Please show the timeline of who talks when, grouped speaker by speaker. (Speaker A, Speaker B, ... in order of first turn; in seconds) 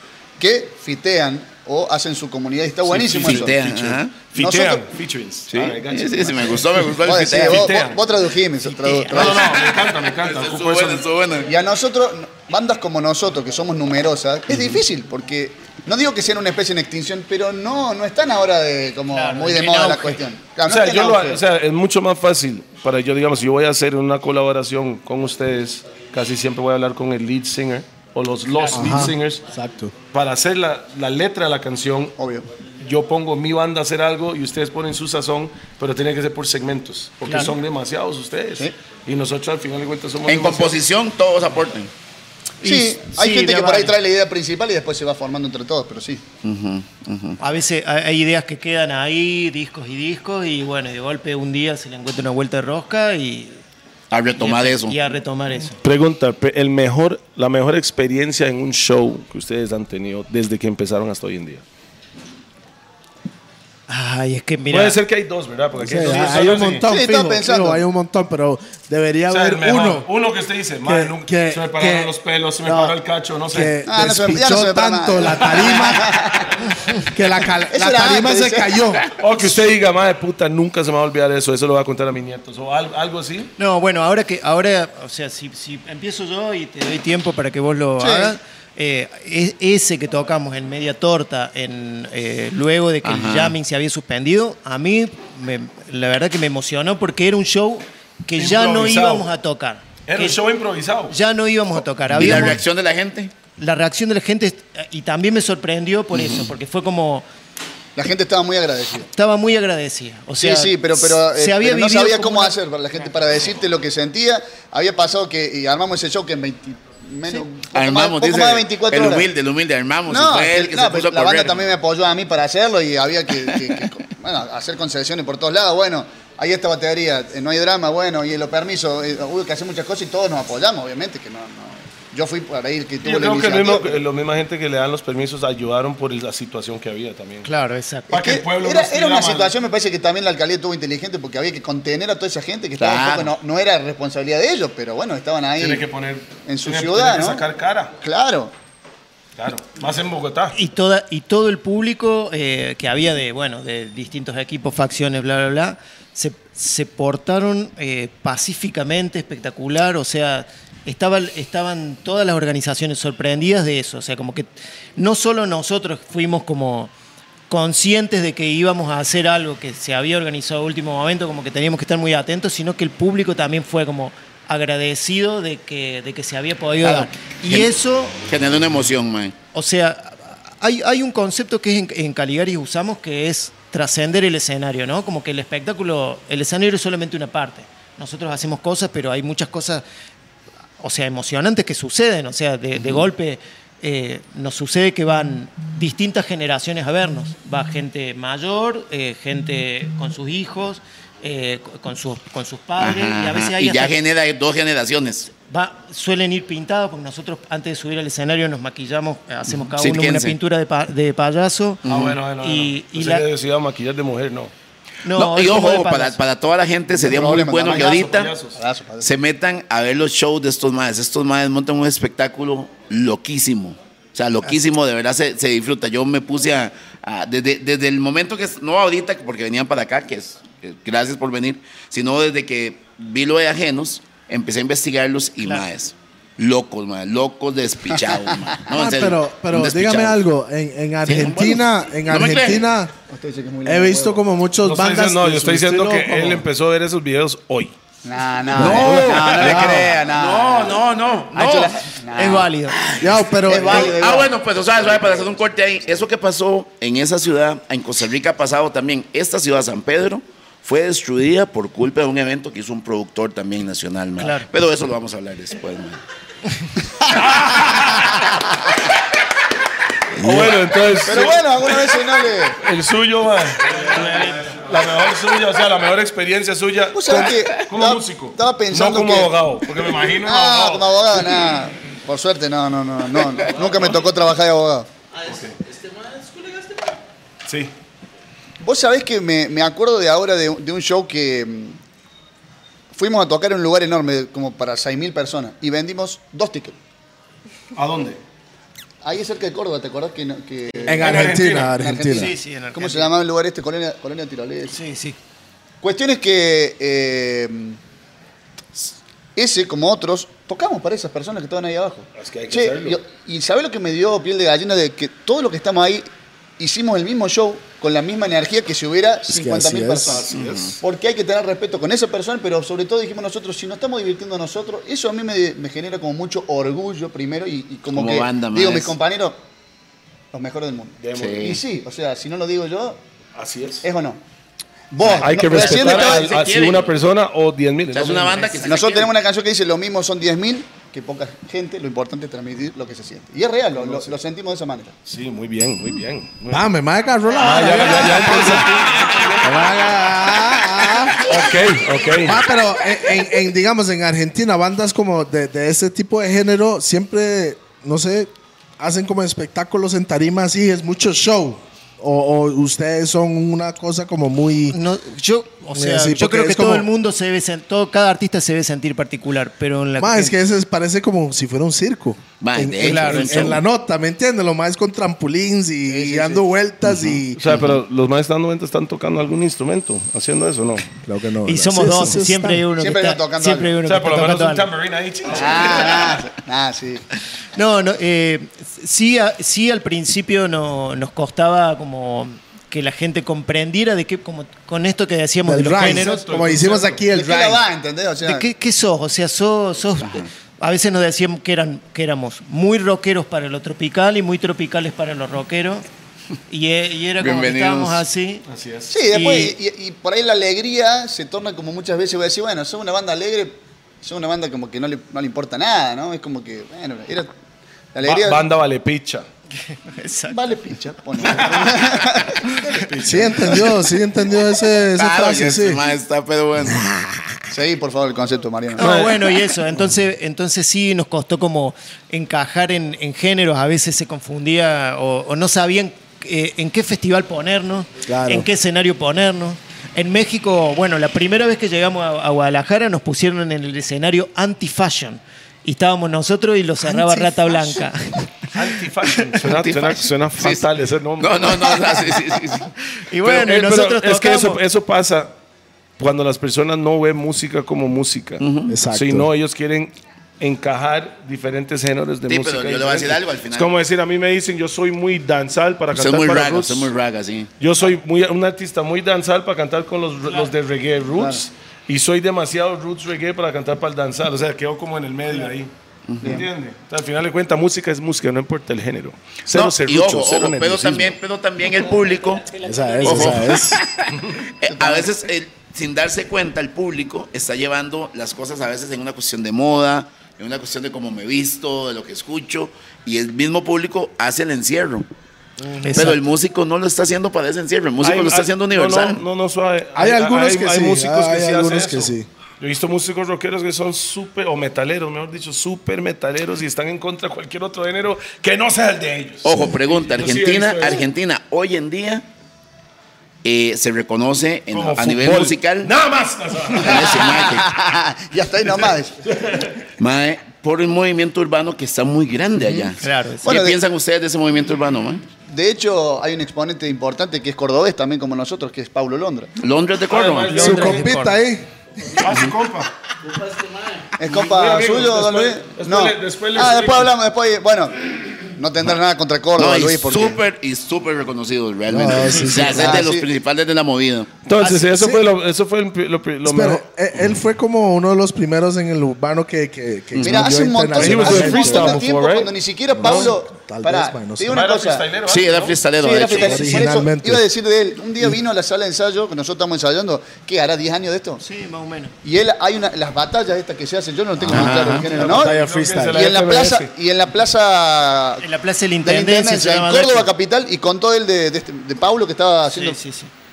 Speaker A: 0.4-3.6, 4.3-4.9, 7.0-9.6, 11.4-21.4, 32.2-32.5, 42.6-46.2, 66.9-67.8, 73.9-76.6, 77.7-78.9, 88.0-88.3, 108.0-109.1, 110.4-119.3, 120.1-134.0, 138.1-145.8, 146.4-147.4, 148.0-148.5, 216.9-219.1, 238.0-238.6, 243.1-244.2, 248.0-250.8, 251.3-252.5, 253.4-254.4, 271.1-272.6, 276.9-279.3, 280.1-284.9, 288.6-291.8, 292.9-296.8, 299.0-304.8, 305.8-307.8, 309.4-316.1, 316.6-329.4, 330.3-333.0, 333.8-334.2, 334.9-336.3, 338.7-344.9, 348.2-348.6, 375.9-376.4, 382.7-383.7, 385.3-387.1, 397.1-398.5, 408.9-417.3, 417.9-418.5, 420.3-422.8, 427.5-429.0, 471.1-471.4, 484.7-485.2, 516.9-519.2, 522.6-523.8, 525.5-529.5, 534.2-540.4, 542.5-543.3, 550.2-555.1, 556.0-561.4, 562.2-565.6, 566.1-568.5, 569.0-573.0
Speaker B: 2.8-8.0, 9.1-11.1, 20.6-29.4, 30.1-32.1, 32.8-40.8, 55.8-61.6, 64.7-66.9, 69.3-73.8, 79.2-83.5, 98.4-99.3, 100.1-101.1, 133.0-137.5, 138.1-139.5, 145.6-147.9, 149.4-150.6, 211.9-214.5, 217.7-218.6, 244.6-247.7, 248.8-249.9, 267.1-268.2, 270.2-280.9, 285.3-285.6, 287.5-287.7, 297.7-298.2, 301.0-301.7, 312.2-313.0, 320.1-320.7, 331.0-331.4, 333.3-333.8, 335.1-338.7, 345.1-346.7, 347.4-349.5, 351.2-352.4, 377.4-380.9, 383.8-386.2, 395.7-397.0, 408.5-408.9, 418.0-419.3, 421.2-422.0, 422.8-423.7, 428.8-429.3, 448.5-451.8, 453.3-455.3, 456.0-466.9, 467.6-475.7, 476.2-481.2, 498.0-511.1, 514.7-517.4, 519.3-519.8, 530.1-531.0, 532.2-532.9, 534.3-537.1, 544.5-546.8, 550.9-552.5, 553.0-553.3, 554.5-555.8, 564.8-566.9
Speaker C: 3.2-4.3, 5.5-7.8, 9.2-11.5, 14.5-14.8, 40.3-41.9, 46.4-47.4, 54.1-55.0, 93.0-93.5, 102.1-103.3, 106.1-106.5, 117.7-121.7, 123.5-123.8, 142.8-143.3, 176.8-177.7, 178.3-179.4, 192.8-193.1, 202.8-205.3, 209.5-210.4, 211.8-212.1, 215.1-218.4, 219.0-240.2, 241.1-242.7, 248.5-251.8, 252.7-266.0, 320.3-320.8, 327.9-328.9, 331.1-331.6, 335.1-336.9, 337.9-339.1, 372.4-373.6, 376.9-377.2, 407.2-408.1, 424.9-427.1, 449.4-450.7, 451.2-452.7, 458.4-458.8, 462.3-463.7, 465.9-467.5, 476.1-476.4, 479.5-482.5, 483.0-495.1, 495.9-499.2, 509.4-512.3, 513.4-515.9, 516.8-517.7, 520.0-525.2, 529.6-530.8, 539.5-544.3, 550.1-550.5, 555.3-556.8, 564.5-565.1
Speaker D: 8.6-9.3, 19.1-20.2, 28.6-29.1, 37.2-37.5, 42.6-44.0, 47.4-53.6, 54.4-55.8, 63.9-65.0, 83.6-100.4, 101.1-102.6, 103.6-107.2, 109.1-112.6, 137.4-138.1, 150.5-166.9, 167.5-178.2, 179.5-189.8, 190.8-204.0, 205.5-211.8, 212.4-213.3, 215.1-216.2, 252.1-252.8, 264.2-264.5, 273.9-274.6, 302.1-303.1, 304.7-305.2, 364.7-370.3, 372.8-373.6, 381.4-384.7, 387.6-396.2, 398.2-405.8, 406.5-408.4, 409.1-409.6, 419.6-420.4, 428.8-448.7, 452.8-454.6, 482.8-483.3, 495.7-496.2, 523.0-523.5, 530.5-531.4, 561.4-562.1, 568.4-570.3, 572.7-573.3
Speaker E: 28.7-29.9, 65.8-70.1, 70.8-72.1, 73.5-76.1, 77.0-79.0, 238.7-242.9, 243.6-246.4, 248.5-249.1, 253.0-254.0, 270.2-270.6, 300.9-302.3, 319.3-320.2, 346.5-348.7, 349.4-351.6, 352.2-364.8, 365.7-366.9, 370.0-377.6, 381.0-382.7, 395.4-397.6, 423.0-425.8, 438.1-438.5, 458.7-459.3, 482.6-483.8, 495.8-496.1, 499.9-502.3, 530.6-531.7, 541.9-543.1, 544.6-545.3, 546.5-552.0, 552.9-554.6, 556.3-557.5, 564.5-566.3
Speaker F: 285.1-287.0, 482.0-483.0, 533.2-534.1